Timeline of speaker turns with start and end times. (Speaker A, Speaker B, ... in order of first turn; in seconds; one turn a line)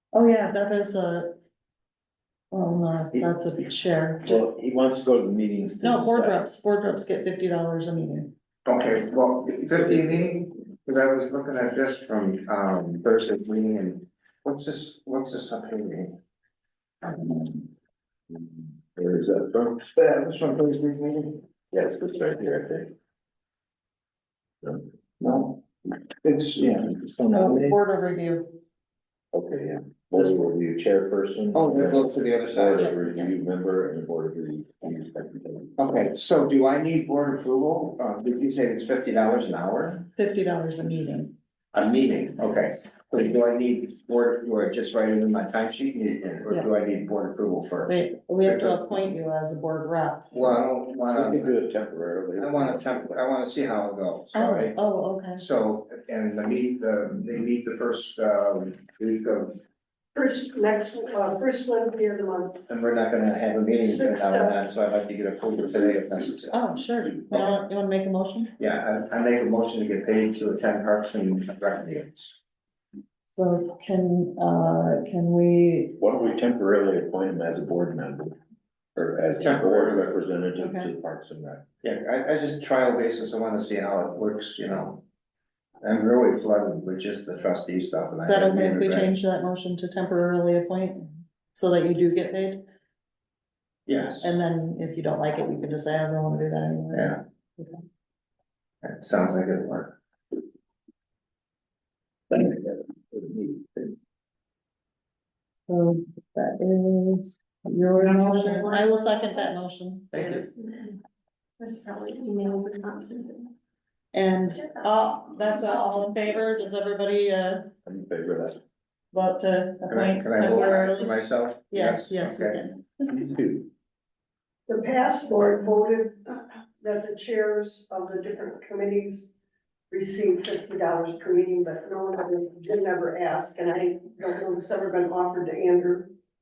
Speaker A: 0.1-1.4
Speaker A: 2.5-4.4
Speaker B: 4.2-6.4
Speaker A: 5.8-8.3
Speaker C: 8.7-16.2
Speaker B: 9.8-10.2
Speaker B: 18.4-19.8
Speaker C: 19.9-21.4
Speaker B: 21.7-22.9
Speaker C: 25.2-25.7
Speaker C: 26.2-27.5
Speaker B: 26.9-27.7
Speaker A: 27.3-28.5
Speaker B: 29.3-35.8
Speaker C: 30.2-30.5
Speaker C: 31.5-33.0
Speaker C: 35.8-40.1
Speaker A: 40.1-41.3
Speaker C: 41.7-48.9
Speaker A: 47.9-50.3
Speaker C: 50.3-51.5
Speaker B: 51.1-53.2
Speaker C: 52.4-54.8
Speaker A: 54.3-55.4
Speaker C: 55.4-59.6
Speaker D: 60.1-62.6
Speaker C: 62.7-66.5
Speaker D: 63.8-64.6
Speaker A: 66.5-68.5
Speaker C: 68.6-72.4
Speaker A: 73.3-76.0
Speaker B: 76.0-78.4
Speaker B: 79.0-81.7
Speaker C: 79.4-80.2
Speaker A: 80.6-80.9
Speaker C: 81.8-85.0
Speaker C: 85.8-89.1
Speaker A: 88.2-92.6
Speaker C: 93.9-94.3
Speaker A: 94.2-97.8
Speaker C: 96.9-97.2
Speaker C: 98.8-100.0
Speaker A: 105.7-110.5
Speaker E: 108.0-109.5
Speaker E: 110.1-111.0
Speaker E: 111.6-113.5
Speaker A: 114.1-117.7
Speaker E: 114.5-116.4
Speaker B: 117.8-118.6
Speaker A: 119.1-121.1
Speaker C: 119.9-122.6
Speaker A: 121.7-122.9
Speaker B: 123.1-123.7
Speaker D: 124.7-129.3
Speaker D: 129.9-136.1